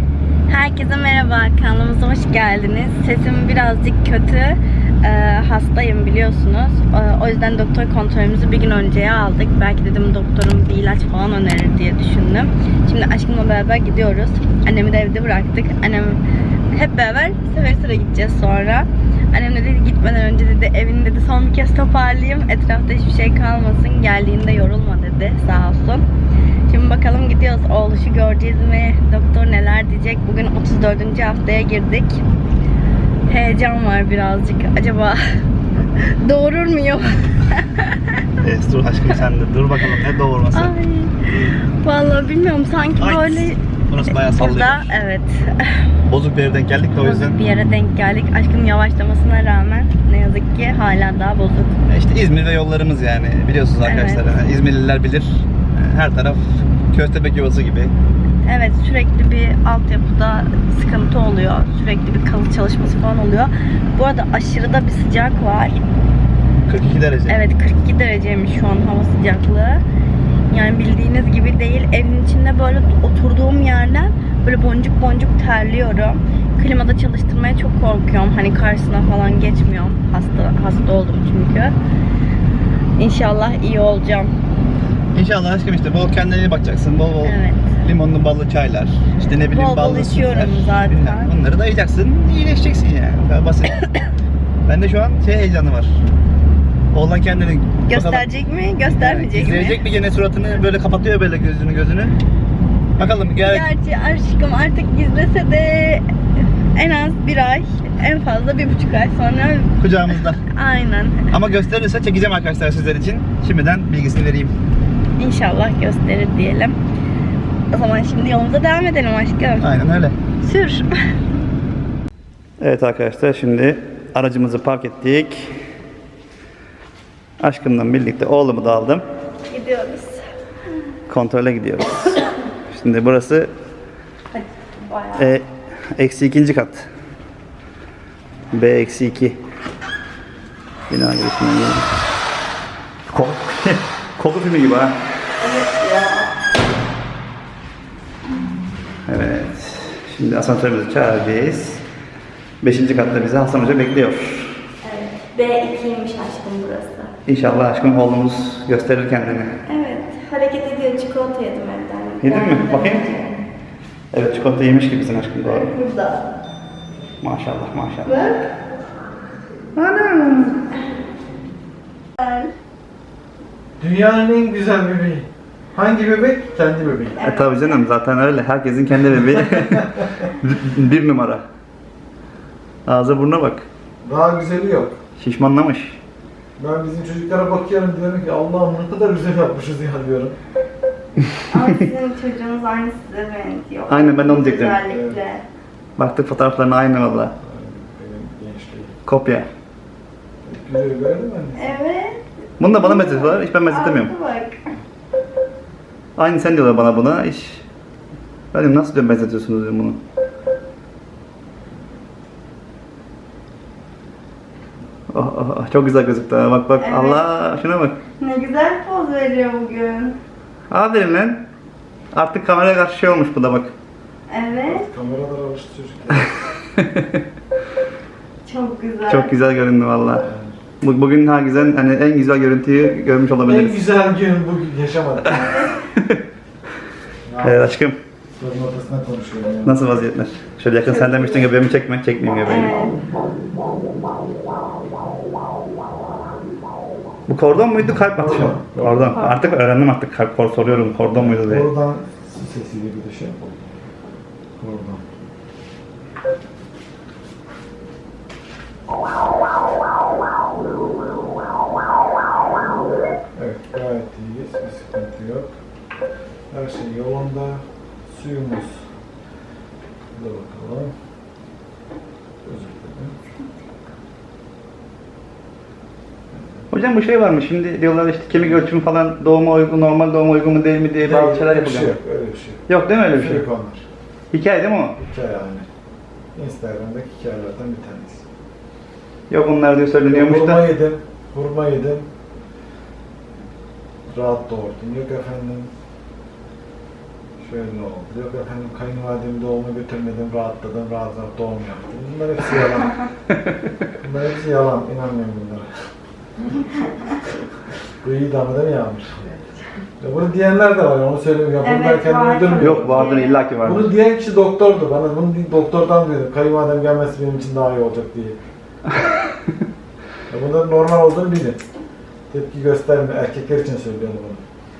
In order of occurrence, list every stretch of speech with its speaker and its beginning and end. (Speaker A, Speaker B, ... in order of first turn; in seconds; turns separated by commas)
Speaker A: 0.5-16.2, Speaker A: 16.7-26.1, Speaker A: 26.7-32.2, Speaker A: 33.3-35.2, Speaker A: 36.0-37.9, Speaker B: 38.4-40.7, Speaker A: 40.5-45.9, Speaker B: 43.0-44.9, Speaker B: 46.0-47.4, Speaker A: 47.0-51.7, Speaker B: 51.9-57.9, Speaker A: 53.8-54.2, Speaker A: 58.5-65.8, Speaker B: 66.6-67.4, Speaker A: 67.3-69.8, Speaker A: 70.5-81.7, Speaker A: 83.0-84.3, Speaker B: 85.1-93.8, Speaker A: 87.2-87.8, Speaker A: 89.5-91.3, Speaker B: 94.7-96.0, Speaker B: 96.9-98.3, Speaker A: 97.9-99.8, Speaker B: 98.9-102.2, Speaker B: 103.0-103.7, Speaker A: 103.4-106.0, Speaker A: 106.7-109.8, Speaker B: 109.8-110.4, Speaker A: 110.5-111.3, Speaker B: 111.3-114.5, Speaker A: 115.2-116.7, Speaker A: 117.7-119.7, Speaker B: 119.6-120.2, Speaker A: 120.4-120.9, Speaker B: 122.6-125.6, Speaker B: 127.4-129.0, Speaker A: 129.5-130.2, Speaker B: 131.1-133.5, Speaker A: 134.3-135.3, Speaker B: 135.2-136.9, Speaker B: 138.5-139.4, Speaker B: 140.9-141.9, Speaker B: 143.1-145.0, Speaker A: 145.4-146.3, Speaker B: 149.1-151.8, Speaker B: 152.6-154.6, Speaker A: 154.8-157.1, Speaker B: 157.3-159.6, Speaker A: 159.7-163.3, Speaker B: 162.2-163.1, Speaker B: 164.1-165.7, Speaker A: 165.4-166.2, Speaker B: 167.2-168.1, Speaker A: 168.0-168.5, Speaker B: 169.8-170.6, Speaker A: 172.2-172.5, Speaker C: 173.8-177.2, Speaker B: 177.2-181.4, Speaker A: 177.2-177.8, Speaker B: 182.8-183.6, Speaker C: 184.0-185.0, Speaker B: 185.2-186.0, Speaker C: 186.6-190.3, Speaker A: 191.5-195.4, Speaker B: 193.9-194.8, Speaker C: 194.8-195.2, Speaker B: 196.0-197.3, Speaker C: 197.4-199.0, Speaker B: 199.1-199.5, Speaker C: 200.4-201.8, Speaker A: 201.6-204.6, Speaker B: 202.6-204.1, Speaker B: 206.2-207.6, Speaker B: 208.5-210.0, Speaker B: 215.1-218.0, Speaker A: 216.8-217.2, Speaker A: 218.2-220.2, Speaker B: 220.7-221.4, Speaker B: 222.1-223.7, Speaker A: 224.3-224.8, Speaker C: 224.6-226.3, Speaker B: 226.8-227.2, Speaker A: 228.4-229.3, Speaker B: 229.1-230.2, Speaker C: 230.2-230.6, Speaker B: 230.8-233.8, Speaker C: 233.4-235.4, Speaker A: 235.2-235.8, Speaker B: 235.4-236.2, Speaker C: 237.2-237.7, Speaker B: 237.4-238.0, Speaker C: 238.4-239.8, Speaker B: 239.6-242.7, Speaker A: 240.8-241.5, Speaker A: 242.4-242.9, Speaker B: 247.3-251.7, Speaker C: 248.0-249.3, Speaker C: 251.1-253.6, Speaker C: 254.6-255.0, Speaker C: 263.4-265.5, Speaker C: 266.5-268.8, Speaker C: 270.1-270.9, Speaker C: 272.4-273.2, Speaker C: 276.3-276.6, Speaker B: 276.7-282.0, Speaker C: 281.0-283.8, Speaker B: 282.7-283.4, Speaker B: 284.3-285.0, Speaker C: 285.0-285.6, Speaker C: 286.3-288.2, Speaker B: 289.3-290.6, Speaker C: 290.1-292.1, Speaker C: 294.1-295.7, Speaker C: 297.4-303.0, Speaker C: 304.0-305.7, Speaker C: 308.0-309.2, Speaker C: 310.0-313.1, Speaker A: 311.6-313.4, Speaker B: 312.6-313.9, Speaker C: 313.6-318.4, Speaker C: 320.3-321.6, Speaker C: 322.3-324.4